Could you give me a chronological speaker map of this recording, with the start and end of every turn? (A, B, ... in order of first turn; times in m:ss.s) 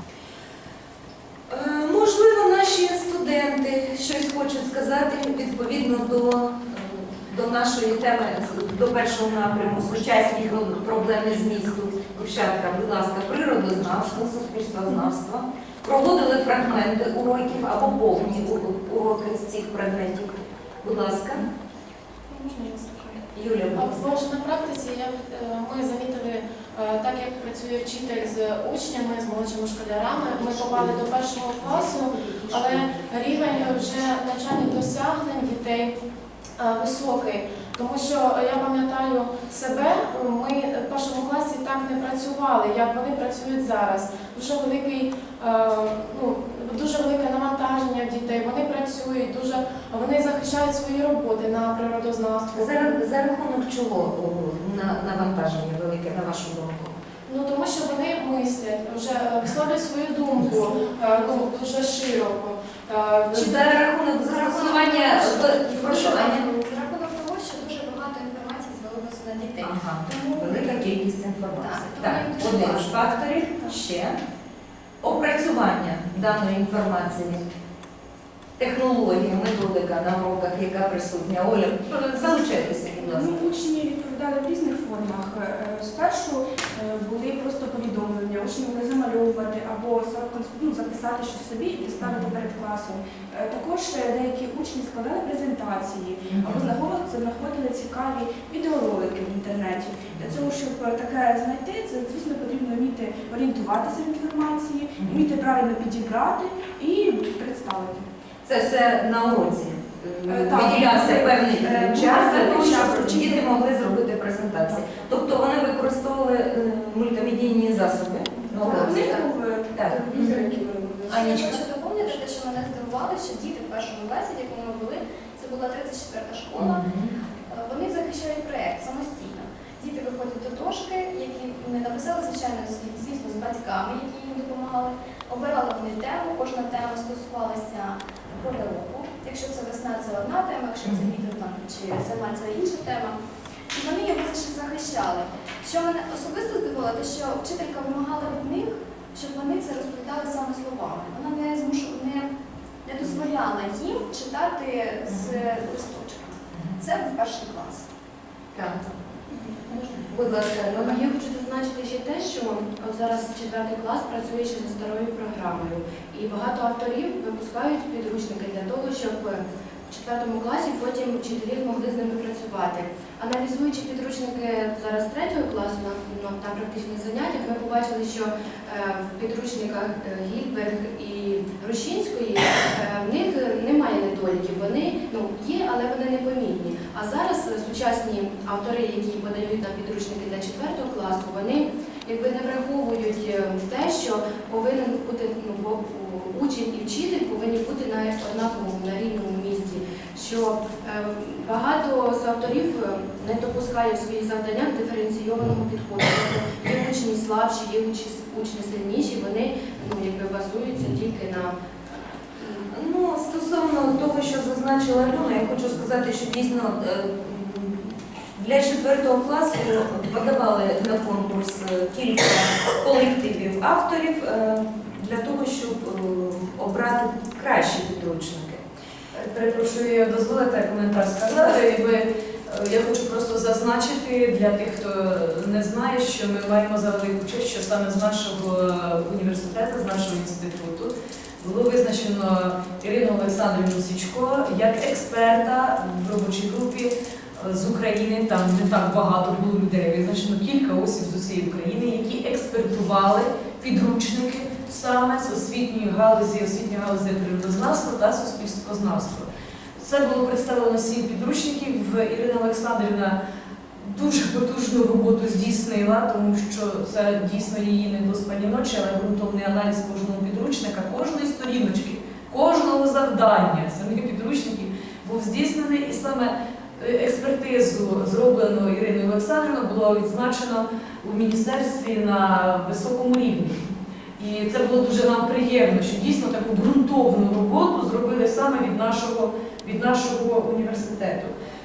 0:01.5-0:21.4 A
0:22.3-0:23.2 B
0:23.3-0:24.0 A
0:23.7-0:35.9 B
0:30.3-0:30.9 C
0:31.7-0:32.8 C
0:36.6-0:53.0 B
0:52.5-0:57.0 A
0:57.3-1:03.7 B
1:03.3-1:06.4 A
1:04.3-1:10.8 D
1:09.6-1:14.2 A
1:11.6-1:13.1 D
1:15.0-1:17.4 A
1:18.6-1:23.7 A
1:22.0-1:48.0 C
1:32.0-1:32.3 A
1:36.3-1:36.7 A
1:48.4-2:00.5 A
1:50.2-1:53.5 C
1:58.6-2:01.2 C
1:58.6-1:59.1 E
2:01.1-2:06.9 D
2:01.1-2:01.6 A
2:06.6-2:07.1 A
2:07.5-2:23.2 D
2:20.8-2:21.1 A
2:23.7-2:32.3 D
2:32.8-2:37.8 D
2:38.5-2:38.9 A
2:39.4-2:40.0 E
2:40.1-2:41.0 A
2:40.7-3:31.5 E
3:32.3-3:32.7 E
3:32.7-3:48.6 A
3:49.1-4:23.2 F
4:23.8-4:43.6 F
4:44.2-4:51.3 F